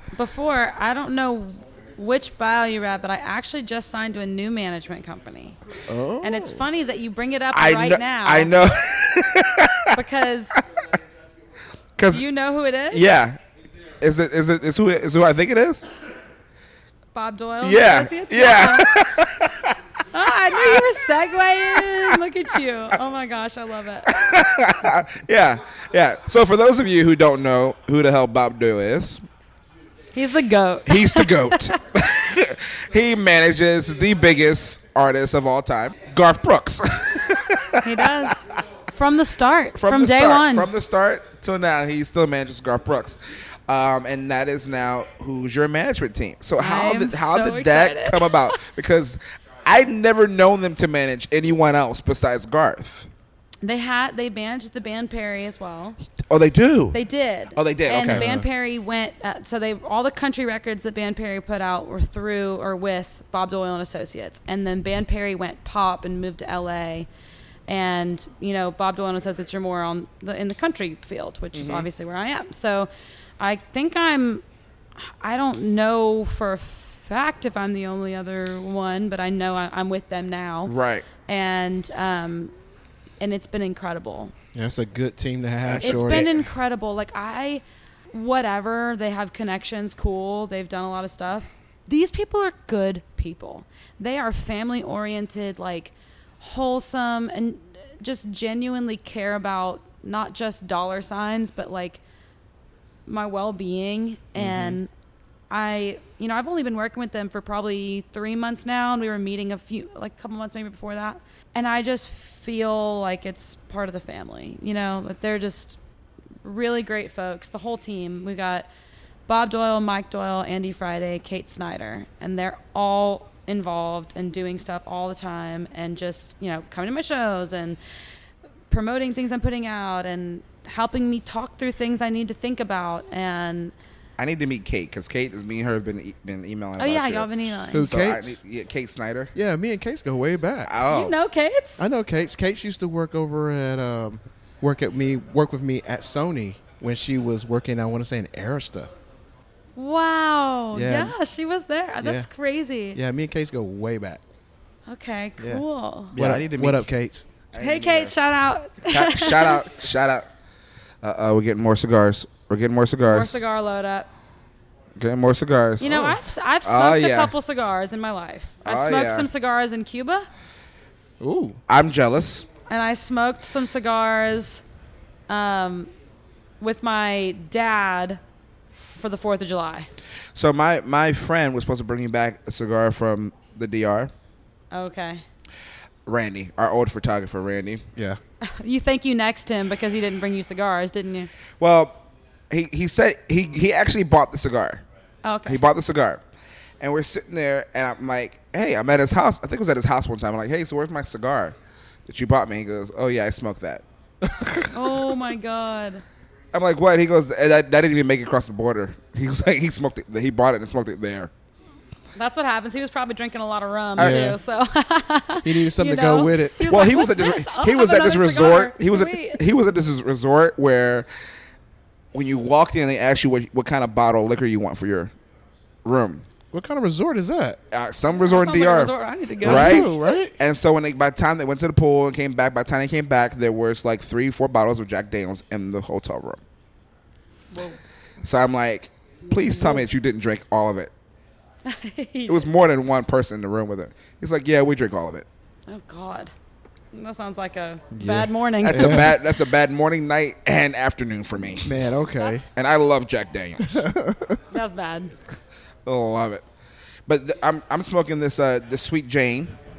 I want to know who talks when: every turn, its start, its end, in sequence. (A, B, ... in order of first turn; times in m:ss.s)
0:00.1-0:05.6 A
0:05.9-0:06.6 B
0:06.2-0:08.5 A
0:07.5-0:09.9 C
0:09.9-0:10.6 A
0:12.0-0:12.2 C
0:12.1-0:13.1 A
0:12.9-0:13.4 C
0:14.0-0:15.9 C
0:17.1-0:18.9 A
0:17.6-0:19.8 C
0:20.1-0:24.2 A
0:20.6-0:20.9 C
0:24.1-0:29.2 C
0:30.1-0:31.7 A
0:30.9-0:38.3 C
0:37.8-0:40.7 A
0:39.8-0:53.1 C
0:46.6-0:48.6 A
0:53.6-0:56.0 A
0:56.3-0:57.0 C
0:56.9-1:07.1 A
0:57.6-0:58.3 C
0:58.0-0:58.4 B
1:07.7-1:14.4 A
1:11.5-1:11.9 C
1:15.0-1:20.7 A
1:20.6-1:21.0 C
1:21.2-1:22.5 A
1:23.2-1:24.3 A
1:24.5-1:26.3 B
1:25.6-1:26.4 C
1:25.8-1:42.0 A
1:43.1-1:44.9 A
1:44.4-1:44.8 B
1:45.5-1:55.8 A
1:56.4-1:58.7 A
1:59.3-2:07.8 A
2:08.7-2:13.7 A
2:14.2-2:19.3 C
2:16.8-2:17.9 A
2:17.7-2:18.4 B
2:19.3-2:20.7 B
2:20.6-2:21.1 C
2:20.9-2:21.8 A
2:21.8-2:28.9 B
2:29.8-2:33.0 A
2:30.7-2:31.1 B
2:32.0-2:32.3 B
2:32.9-2:34.2 B
2:34.9-2:36.1 A
2:35.4-2:35.6 B
2:36.1-2:36.8 C
2:36.1-2:37.3 B
2:37.5-2:38.2 C
2:37.6-2:39.6 A
2:38.8-2:40.3 C
2:41.0-2:43.4 C
2:43.0-2:44.1 A
2:45.0-2:47.3 C
2:45.8-2:50.3 A
2:45.8-2:46.1 B
2:48.6-2:49.3 C
2:51.2-2:51.6 B
2:51.7-2:52.5 C
2:52.7-2:54.6 A
2:55.3-2:55.9 A
2:56.6-2:58.2 A
2:59.0-2:59.9 A
3:00.3-3:04.1 C
3:04.7-3:05.2 A
3:06.0-3:07.8 C
3:08.4-3:11.3 A
3:11.6-3:12.0 C
3:12.5-3:14.8 C
3:15.2-3:15.6 A
3:15.4-3:16.2 C
3:16.8-3:21.5 C
3:22.1-3:23.8 C
3:24.2-3:24.7 B
3:24.7-3:26.0 A
3:26.5-3:31.3 C
3:32.1-3:39.4 A
3:34.0-3:34.3 C
3:34.0-3:34.4 B
3:35.4-3:36.7 B
3:36.6-3:41.1 C
3:42.1-3:45.1 C
3:45.8-3:46.2 C
3:46.5-3:47.6 B
3:47.7-3:56.4 C
3:48.2-3:50.0 A
3:49.4-3:50.4 B
3:57.5-3:57.8 A
3:58.2-4:00.9 C
3:59.2-3:59.8 A
4:01.6-4:02.5 A
4:02.3-4:05.2 C
4:05.7-4:06.3 A
4:06.9-4:09.2 A
4:07.9-4:09.1 B
4:08.6-4:11.8 C
4:11.5-4:12.4 B
4:12.5-4:13.9 C
4:13.6-4:14.4 B
4:14.5-4:15.1 A
4:15.8-4:16.4 C
4:17.1-4:19.5 C